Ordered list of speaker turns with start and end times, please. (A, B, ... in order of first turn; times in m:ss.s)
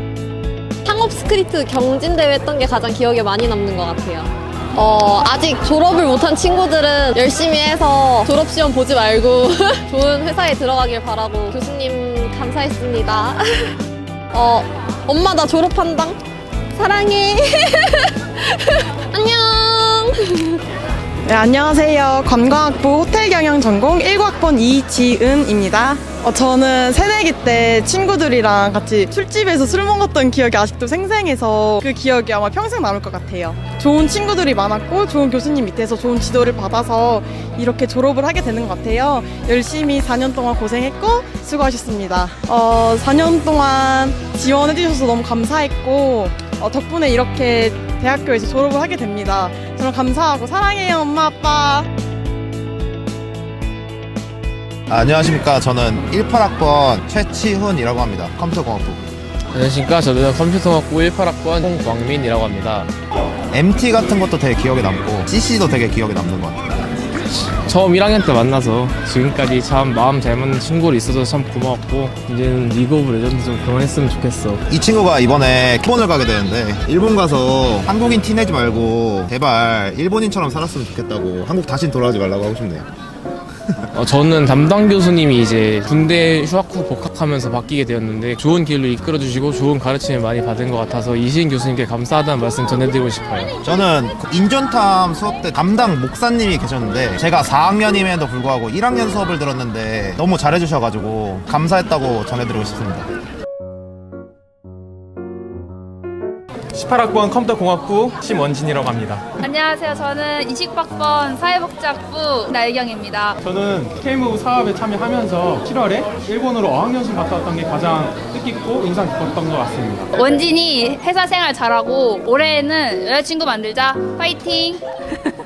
0:00.8-0:13.7 A
0:14.3-0:16.2 A
0:16.7-0:20.6 A
0:21.3-0:51.9 B
0:54.9-0:59.0 C
0:59.5-1:02.9 D
1:03.5-1:06.6 C
1:07.4-1:14.6 D
1:14.7-1:22.9 C
1:23.9-1:33.5 D
1:33.6-1:43.1 C
1:46.7-1:49.2 E
1:49.4-1:53.4 F
1:53.4-2:00.1 E
2:00.2-2:05.3 F